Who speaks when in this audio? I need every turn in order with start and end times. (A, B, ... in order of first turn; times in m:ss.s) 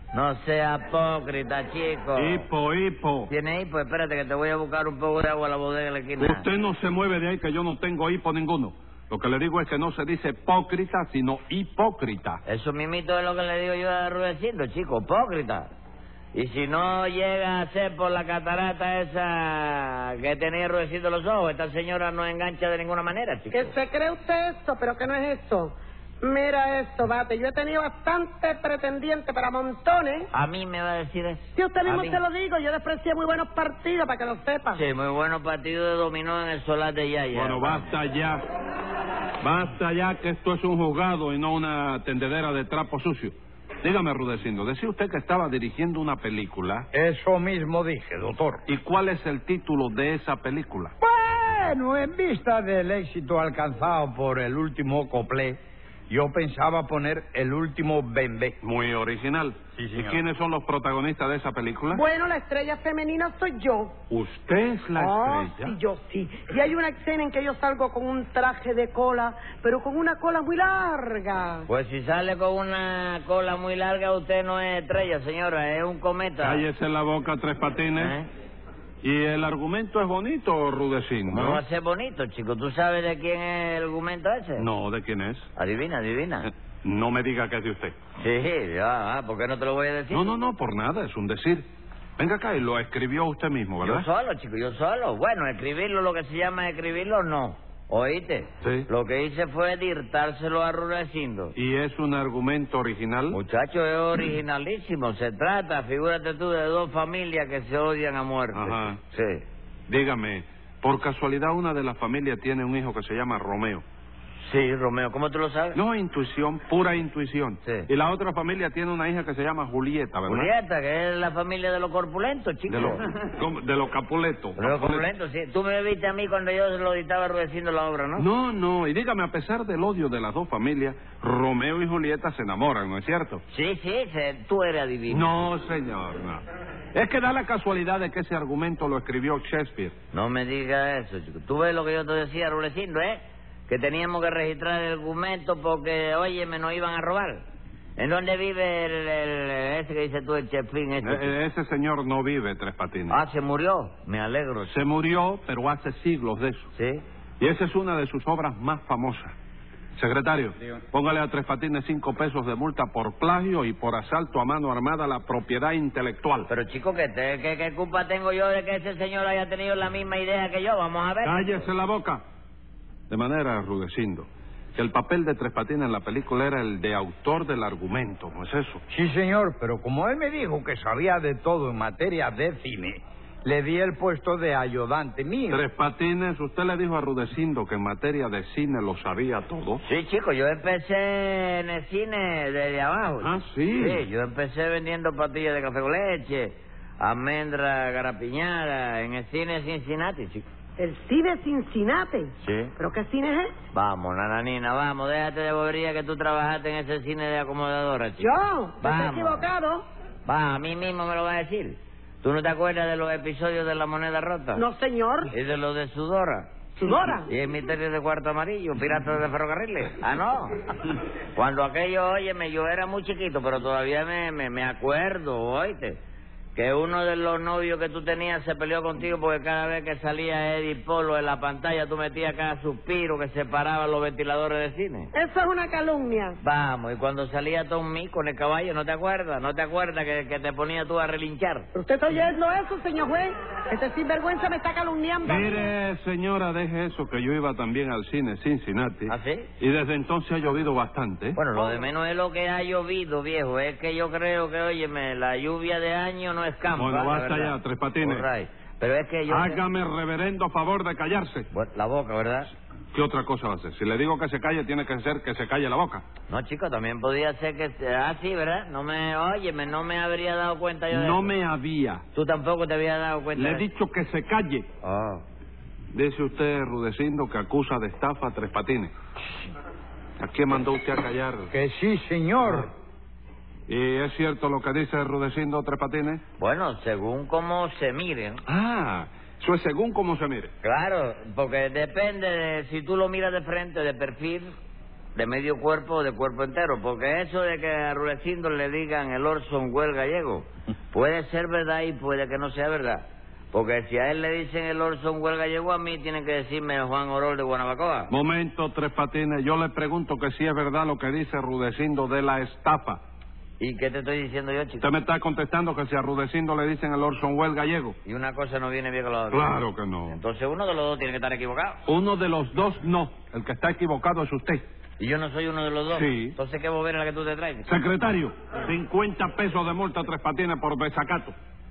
0:00.1-0:02.5 A
0:02.2-0:03.3 B
0:03.3-0:06.5 A
0:06.2-0:12.4 B
0:12.4-0:15.7 A
0:16.3-0:23.8 A
0:23.5-0:30.3 C
0:30.3-0:32.2 A
0:31.6-0:34.8 C
0:34.7-0:37.9 A
0:37.3-0:38.4 B
0:39.4-0:46.9 B
0:46.9-0:48.6 D
0:48.7-0:50.9 B
0:51.0-0:58.6 D
0:58.6-1:02.0 B
0:59.8-1:00.2 D
1:01.9-1:03.9 C
1:04.1-1:05.8 B
1:05.0-1:11.7 C
1:11.7-1:16.6 A
1:16.4-1:18.2 B
1:18.0-1:18.3 A
1:19.0-1:21.6 B
1:21.3-1:24.7 A
1:24.6-1:25.5 B
1:25.6-1:26.5 A
1:26.4-1:28.0 B
1:28.2-1:30.3 A
1:30.1-1:31.7 B
1:32.2-1:34.1 B
1:33.8-1:41.6 A
1:38.6-1:38.9 B
1:41.6-1:43.4 B
1:43.3-1:49.4 A
1:48.5-1:49.0 B
1:49.9-1:53.8 B
1:54.4-1:55.8 A
1:55.7-2:00.5 B
2:00.3-2:03.1 A
2:02.7-2:05.1 B
2:04.6-2:08.3 A
2:08.2-2:13.4 B
2:13.5-2:15.4 A
2:15.1-2:16.4 B
2:16.9-2:20.0 B
2:20.1-2:27.4 A
2:28.0-2:31.3 A
2:31.0-2:33.2 B
2:33.1-2:34.8 A
2:34.7-2:36.7 B
2:36.7-2:37.0 A
2:37.4-2:39.3 B
2:40.0-2:46.5 B
2:46.5-2:51.6 A
2:51.2-2:52.2 B
2:53.1-2:58.8 B
2:58.9-3:05.6 D
3:05.5-3:09.8 B
3:09.8-3:20.4 A
3:13.2-3:14.1 B
3:20.8-3:23.5 C
3:22.4-3:22.7 A
3:23.7-3:29.4 A
3:28.2-3:29.8 C
3:30.2-3:34.6 A
3:34.6-3:35.3 C
3:35.3-3:40.6 A
3:36.8-3:37.3 C
3:41.3-3:46.0 A
3:46.6-3:55.1 A
3:55.1-3:56.4 C
3:56.4-4:01.7 A
4:01.8-4:05.7 C
4:05.2-4:11.4 B
4:09.1-4:09.5 A
4:11.4-4:19.6 A
4:11.6-4:11.9 C
4:16.7-4:18.3 B
4:19.3-4:21.5 B
4:21.5-4:22.5 A
4:22.9-4:26.0 B
4:26.3-4:31.3 A
4:30.9-4:32.0 B
4:32.1-4:33.6 A
4:33.4-4:34.7 B
4:34.8-4:35.2 A
4:35.9-4:38.9 B
4:40.2-4:41.5 B
4:41.5-4:42.7 D
4:43.7-4:46.2 B
4:46.4-4:48.4 A
4:48.5-4:50.5 B
4:50.6-4:54.5 A
4:55.2-5:08.1 A
5:08.1-5:13.0 B
5:13.6-5:14.8 A
5:14.8-5:18.0 B
5:18.0-5:21.8 A
5:19.3-5:20.2 B
5:21.9-5:24.6 B
5:25.0-5:27.7 A
5:25.9-5:26.4 B
5:27.7-5:31.3 B